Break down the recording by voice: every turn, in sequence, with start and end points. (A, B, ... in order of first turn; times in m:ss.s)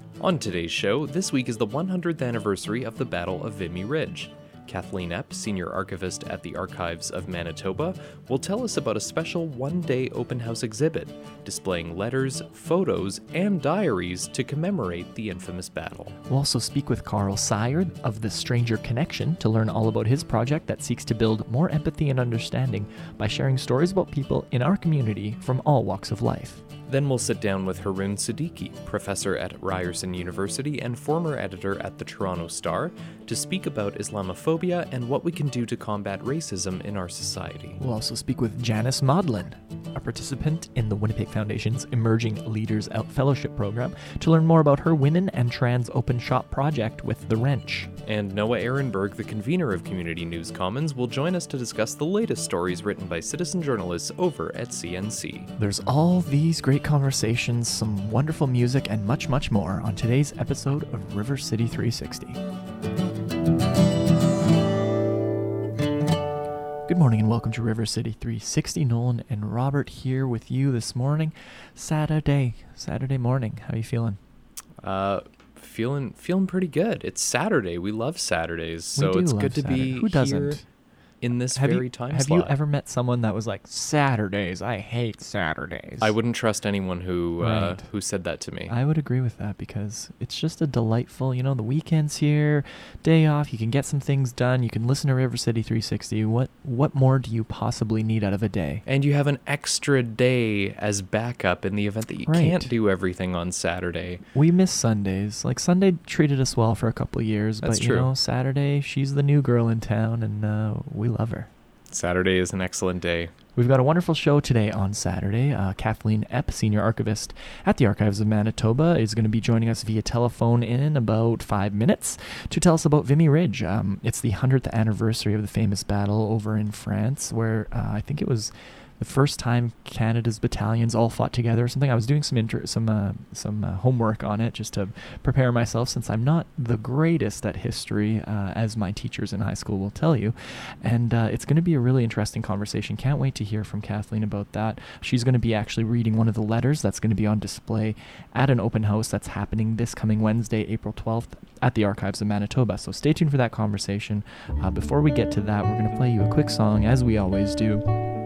0:00.2-0:16.2 A
0:16.3-0:26.6 B
0:26.9-0:37.8 A
0:37.8-0:47.9 B
0:48.1-0:55.5 A
0:55.6-1:02.4 B
1:06.9-1:14.2 B
1:14.8-1:20.7 A
1:19.0-1:20.7 B
1:21.2-1:22.5 A
1:21.5-1:26.1 B
1:26.0-1:28.7 A
1:27.4-1:27.9 B
1:28.7-1:38.8 B
1:38.8-1:44.2 A
1:42.3-1:42.7 B
1:44.3-1:51.5 B
1:47.6-1:48.1 A
1:51.9-1:53.3 A
1:53.6-2:37.8 B